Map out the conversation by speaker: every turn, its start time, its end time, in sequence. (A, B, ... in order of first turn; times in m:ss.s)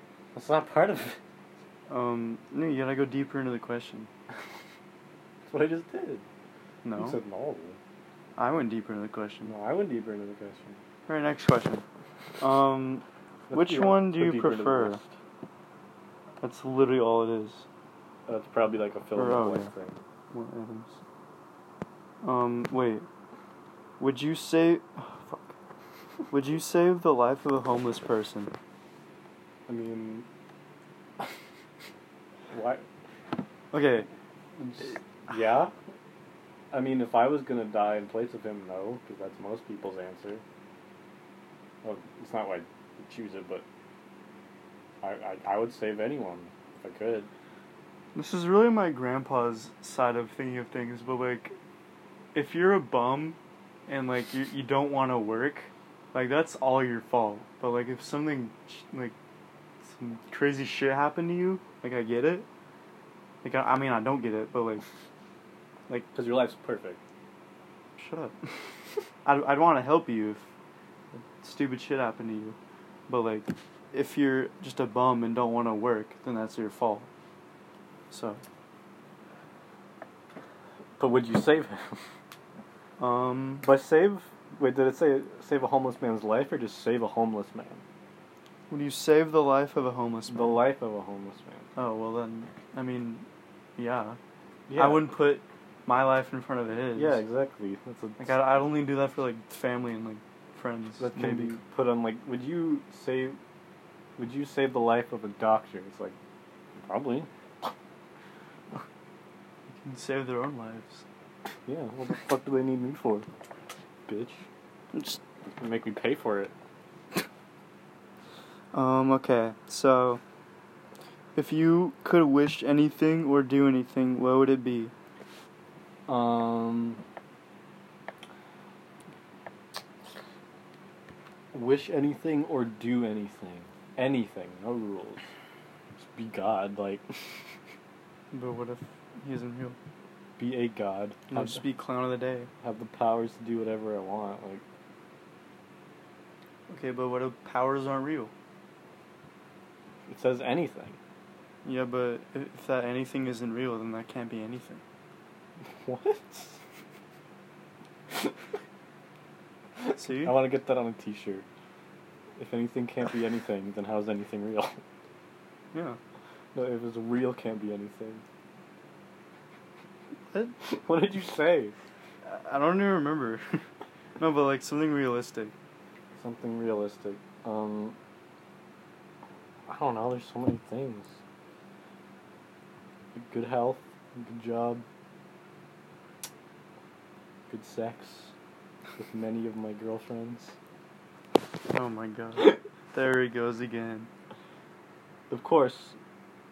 0:00.3-0:01.2 A
0:01.9-0:04.1 B
0:05.5-0:06.2 A
0:06.8-0:07.2 B
0:06.9-0:07.8 A
0:08.4-0:09.5 B
0:09.4-0:10.8 A
0:11.1-0:11.8 B
0:12.4-0:15.0 B
0:13.5-0:15.1 A
0:16.4-0:17.7 B
0:18.3-0:20.0 A
0:19.2-0:19.7 B
0:20.3-0:21.0 B
0:22.2-0:23.1 B
0:24.0-0:25.6 B
0:26.3-0:28.5 B
0:29.7-0:30.3 A
0:32.5-0:32.8 A
0:33.7-0:34.1 B
0:34.6-0:35.7 A
0:36.7-0:40.4 A
0:41.8-0:43.6 A
0:45.0-0:47.3 A
0:48.2-0:51.6 B
0:52.3-0:59.1 B
0:59.8-1:02.5 B
1:03.4-1:04.8 B
1:06.1-1:07.0 A
1:08.0-1:08.4 B
1:09.2-1:10.4 B
1:11.4-1:12.6 B
1:13.1-1:17.1 B
1:18.1-1:18.4 B
1:21.0-1:22.0 A
1:23.0-1:23.7 B
1:23.6-1:27.8 A
1:28.7-1:30.6 B
1:30.3-1:31.7 A
1:31.8-1:33.3 B
1:33.8-1:34.2 B
1:34.7-1:35.1 A
1:34.8-1:37.2 B
1:37.0-1:38.4 A
1:38.2-1:41.6 B
1:41.0-1:43.4 A
1:44.2-1:46.2 A
1:46.9-1:47.7 A
1:49.8-1:51.0 B
1:51.7-1:53.3 A
1:54.1-1:54.4 A
1:54.9-1:55.2 B
1:55.6-1:56.5 A
1:58.7-2:00.2 B
2:01.4-2:04.9 B
2:06.1-2:07.0 A
2:11.5-2:15.2 A
2:16.0-2:17.5 A
2:18.3-2:19.8 B
2:20.4-2:21.6 A
2:21.3-2:22.5 B
2:22.6-2:24.6 A
2:26.7-2:28.3 B
2:30.1-2:31.0 A
2:31.6-2:34.8 B
2:35.7-2:36.6 A
2:39.8-2:41.5 A
2:39.9-2:40.4 B
2:42.4-2:44.8 A
2:45.7-2:46.0 B
2:46.6-2:48.2 A
2:50.6-2:51.8 A
2:52.2-2:53.6 B
2:54.2-2:55.5 B
2:56.2-2:58.0 A
2:59.7-3:01.2 A
3:03.2-3:04.8 A
3:07.5-3:08.3 A
3:09.0-3:10.6 A
3:11.7-3:14.1 B
3:15.3-3:16.0 A